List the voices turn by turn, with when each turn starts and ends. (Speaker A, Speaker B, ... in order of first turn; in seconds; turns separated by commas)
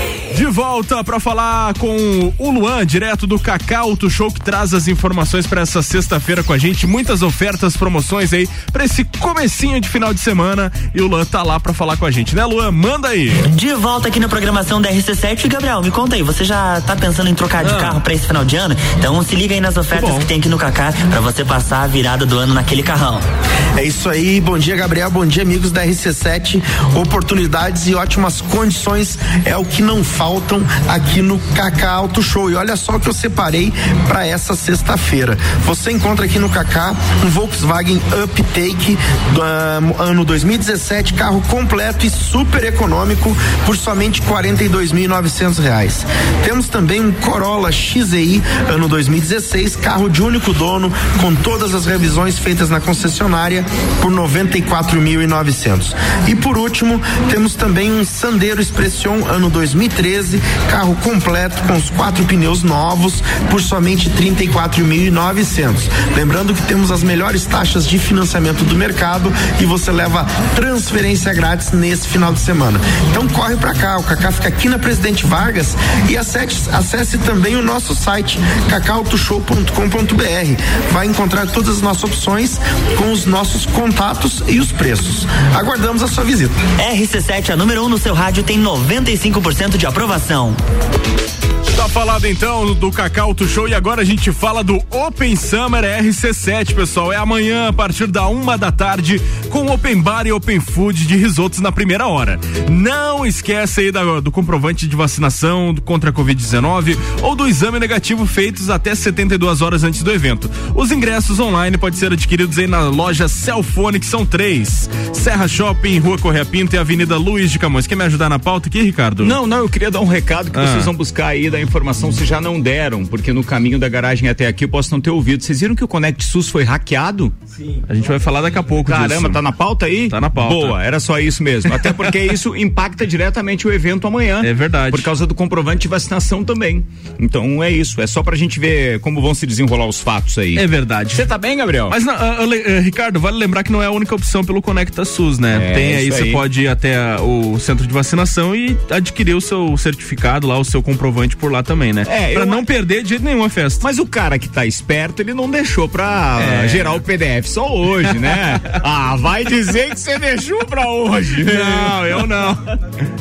Speaker A: 0.3-13.5, Speaker B: 13.4-23.2, Speaker A: 17.6-18.0, Speaker A: 19.9-20.3, Speaker C: 23.8-86.6, Speaker B: 86.8-90.6, Speaker A: 91.7-119.4, Speaker D: 119.2-127.3, Speaker A: 120.5-120.9, Speaker A: 127.9-129.5, Speaker D: 128.9-142.0, Speaker A: 130.1-130.8, Speaker A: 131.7-132.1, Speaker A: 134.4-135.1, Speaker A: 140.6-141.3, Speaker A: 141.9-153.8, Speaker D: 145.5-146.4, Speaker D: 152.1-152.6, Speaker D: 153.8-162.1, Speaker A: 156.4-157.0, Speaker A: 161.2-162.7